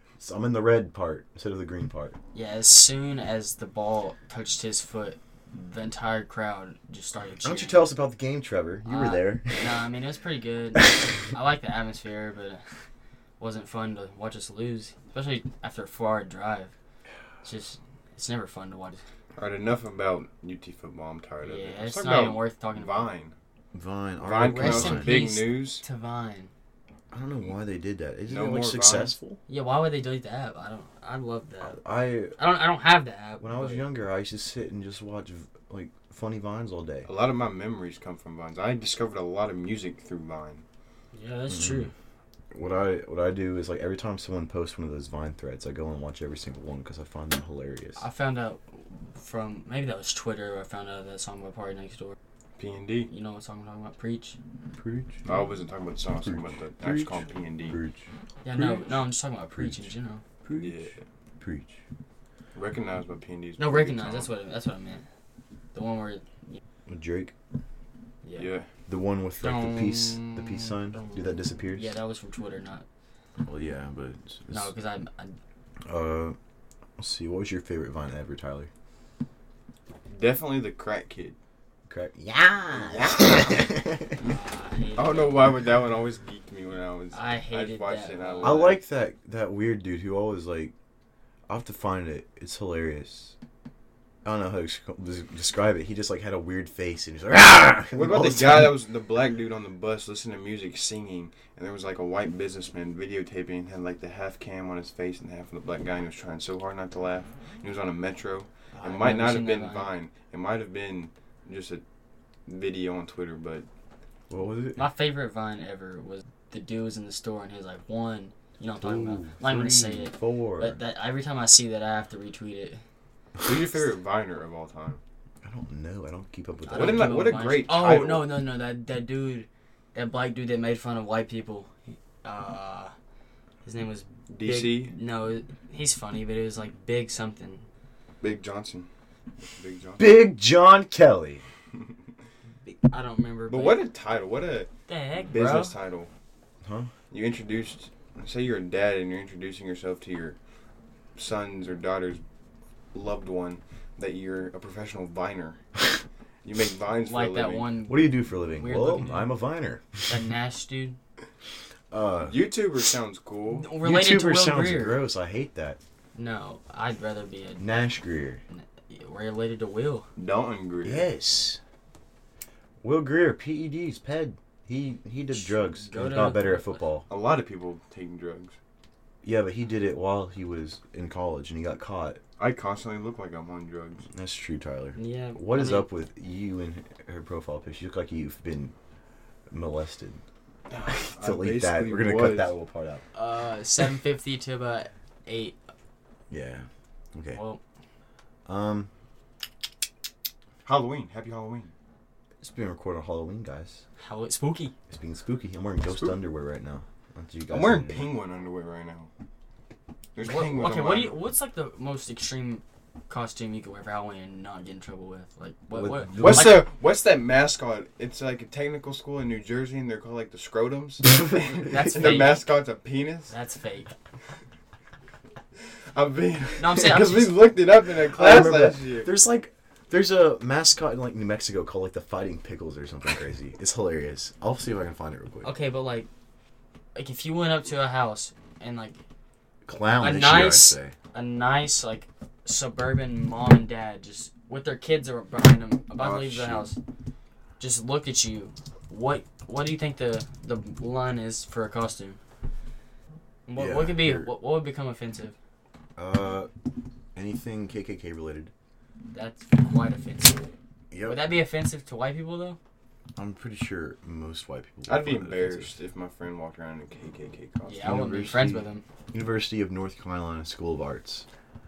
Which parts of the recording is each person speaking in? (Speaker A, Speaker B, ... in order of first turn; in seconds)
Speaker A: 0.2-2.2, 7.4-9.8, 23.7-25.2, 27.1-29.4, 31.6-32.4, 33.4-37.1, 41.5-41.9, 42.5-48.0, 54.8-55.3, 56.2-59.9, 60.4-61.8, 66.9-67.3, 68.9-72.0, 73.4-74.7, 75.9-76.4, 77.0-78.7, 81.9-84.2, 88.4-90.7, 91.5-93.4, 94.2-98.8, 114.3-114.9, 118.8-120.8, 125.4-127.4, 140.0-141.4, 146.6-146.9, 157.9-160.1, 161.9-162.4, 163.8-165.8, 167.6-168.4, 170.8-171.6, 172.8-177.1, 179.2-182.2, 184.1-188.7, 189.5-190.2, 191.2-193.1, 196.3-197.4, 198.5-198.9, 202.4-203.8, 204.9-208.1, 215.7-216.6, 228.0-235.5, 239.7-241.0, 246.0-246.7, 253.6-254.3, 256.0-256.5, 257.1-258.5, 260.9-261.3, 263.2-265.8, 267.8-271.3
Speaker B: 2.3-7.8, 8.8-12.6, 13.4-16.7, 17.4-19.0, 21.4-23.1, 24.4-26.5, 29.5-31.8, 32.4-33.9, 41.1-41.9, 48.0-52.2, 53.1-54.4, 58.4-60.2, 63.6-65.0, 65.7-66.6, 68.2-68.5, 69.4-72.9, 74.5-75.4, 84.2-85.5, 87.1-88.7, 108.7-109.9, 114.8-122.8, 126.7-132.9, 133.6-137.7, 142.6-143.8, 144.9-145.7, 157.0-159.3, 160.1-161.0, 163.6-165.1, 166.2-167.7, 168.5-170.1, 175.3-176.8, 185.0-185.9, 193.1-195.6, 197.3-197.6, 204.0-204.7, 210.2-216.7, 221.5-222.4, 223.3-223.9, 226.6-227.4, 235.4-236.1, 236.9-239.0, 240.0-246.8, 247.6-252.2, 253.5-255.4, 259.1-260.5, 261.0-262.6, 267.7-268.8
Speaker C: 19.4-23.4, 24.2-25.8, 28.3-29.2, 37.1-40.6, 52.6-53.1, 55.2-57.8, 60.6-61.0, 62.5-64.3, 68.4-68.7, 80.1-81.4, 82.8-83.5, 85.0-88.8, 97.9-111.8, 112.5-113.7, 123.4-125.0, 126.7-128.3, 134.3-134.9, 138.2-138.9, 139.4-140.1, 143.5-144.7, 145.2-146.1, 147.1-150.4, 151.2-152.2, 152.9-155.6, 156.4-157.7, 162.2-163.7, 170.2-171.1, 177.1-178.6, 182.4-184.0, 190.7-192.5, 200.7-201.7, 205.9-206.2, 207.5-209.1, 210.2-211.1, 216.2-223.3, 225.9-229.1, 264.9-268.0